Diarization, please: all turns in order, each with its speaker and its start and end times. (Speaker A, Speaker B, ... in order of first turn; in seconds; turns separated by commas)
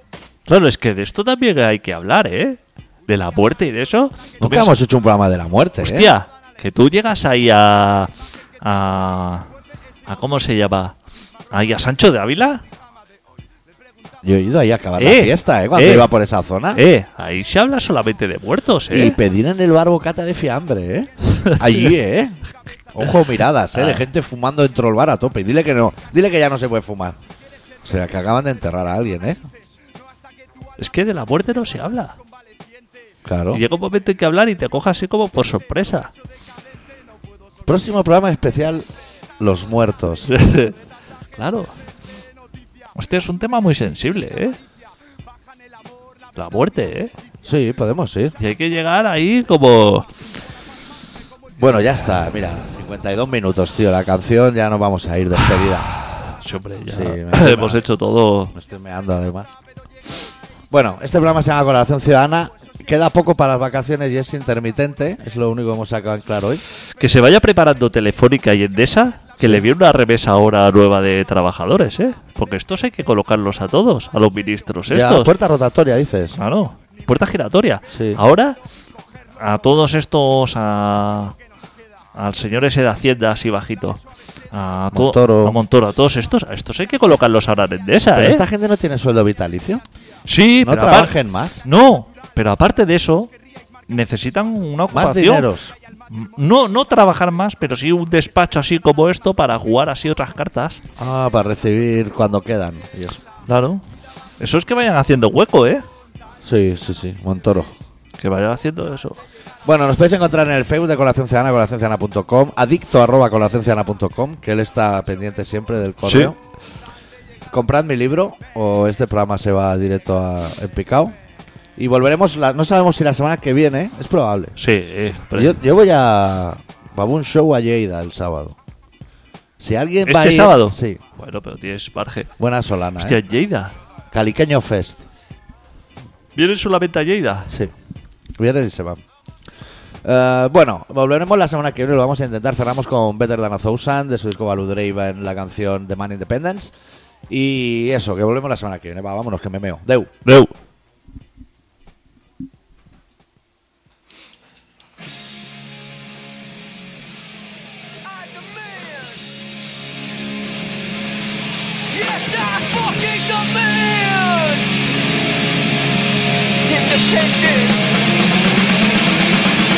Speaker A: 0.5-4.8, Speaker B: 4.4-6.1, Speaker A: 5.8-9.5, Speaker A: 10.1-10.9, Speaker A: 11.5-12.6, Speaker B: 14.2-16.8, Speaker A: 15.0-16.1, Speaker A: 16.7-19.2, Speaker B: 18.9-22.4, Speaker A: 21.4-21.9, Speaker B: 22.9-27.1, Speaker A: 23.7-24.1, Speaker B: 27.8-29.4, Speaker A: 30.8-32.2, Speaker B: 33.2-33.6, Speaker A: 33.5-36.1, Speaker B: 37.6-38.9, Speaker B: 39.4-40.3, Speaker A: 40.3-40.7, Speaker A: 41.3-41.7, Speaker A: 42.9-44.6, Speaker A: 46.3-47.1, Speaker B: 47.4-48.3, Speaker A: 48.4-50.1, Speaker B: 51.6-55.9, Speaker A: 56.0-58.5, Speaker B: 56.9-57.8, Speaker B: 58.5-59.5, Speaker B: 60.7-66.6, Speaker A: 67.0-75.3, Speaker B: 69.4-69.6, Speaker B: 74.9-76.4, Speaker A: 76.4-78.6, Speaker B: 77.9-78.2, Speaker A: 79.4-81.3, Speaker A: 82.1-84.0, Speaker A: 84.5-88.5, Speaker B: 84.9-85.6, Speaker B: 88.1-89.8, Speaker A: 90.3-93.3, Speaker B: 90.6-91.6, Speaker A: 93.9-95.5, Speaker B: 94.9-95.7, Speaker A: 96.1-100.8, Speaker B: 101.0-103.2, Speaker A: 103.5-103.8, Speaker A: 104.4-105.9, Speaker B: 106.4-107.7, Speaker A: 108.2-109.2, Speaker B: 109.6-116.4, Speaker A: 116.0-116.3, Speaker B: 117.5-121.1, Speaker B: 121.8-124.6, Speaker A: 124.6-125.6, Speaker B: 125.3-128.6, Speaker B: 129.6-131.0, Speaker A: 130.0-132.3, Speaker B: 132.4-133.2, Speaker A: 133.0-133.7, Speaker B: 134.1-135.1, Speaker A: 136.4-137.5, Speaker B: 138.4-139.0, Speaker B: 140.0-146.7, Speaker B: 147.3-150.1, Speaker A: 150.2-150.5, Speaker C: 158.1-159.2, Speaker C: 161.9-164.7, Speaker C: 166.7-167.9